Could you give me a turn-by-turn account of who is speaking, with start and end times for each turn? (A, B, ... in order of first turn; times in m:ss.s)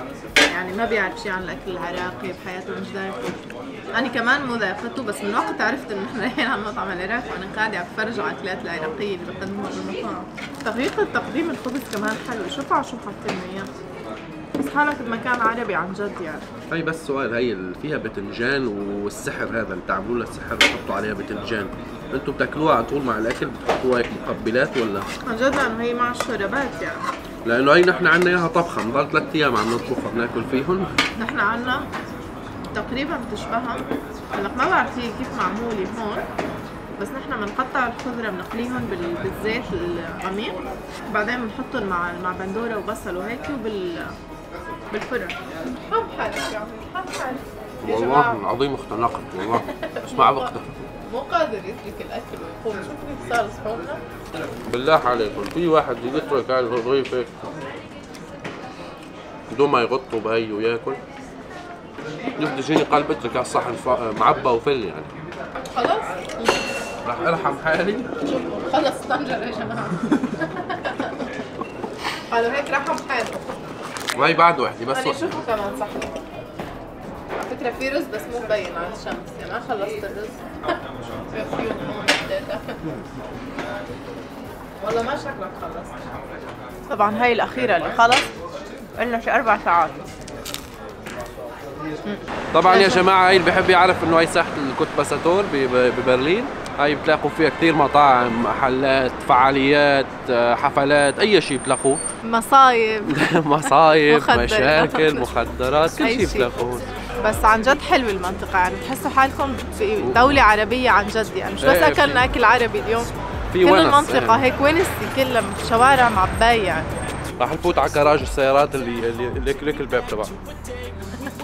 0:00.5-0:13.7 A
0:14.6-0:16.5 A
0:16.7-0:25.0 B
0:25.2-0:27.0 A
0:27.4-0:30.9 B
0:31.2-0:31.9 A
0:32.7-0:36.2 A
0:37.0-0:44.2 A
0:44.9-0:48.4 A
0:47.8-0:50.8 B
0:49.4-0:50.5 A
0:51.1-0:54.0 A
0:54.6-0:57.4 B
0:59.5-1:01.0 B
1:02.4-1:05.1 B
1:05.6-1:06.6 A
1:07.0-1:08.1 B
1:08.2-1:11.2 A
1:12.3-1:13.5 A
1:14.2-1:15.4 B
1:14.9-1:16.1 A
1:17.4-1:20.7 A
1:21.3-1:22.8 A
1:24.8-1:26.0 A
1:26.9-1:28.3 A
1:29.0-1:30.1 A
1:32.0-1:33.0 A
1:32.5-1:42.0 B
1:42.2-1:45.3 A
1:43.1-1:46.9 B
1:46.0-1:46.5 A
1:47.2-1:53.1 A
1:50.0-1:50.4 B
1:51.6-1:52.2 B
1:53.5-1:54.5 B
1:53.6-1:56.9 A
1:57.4-2:00.4 B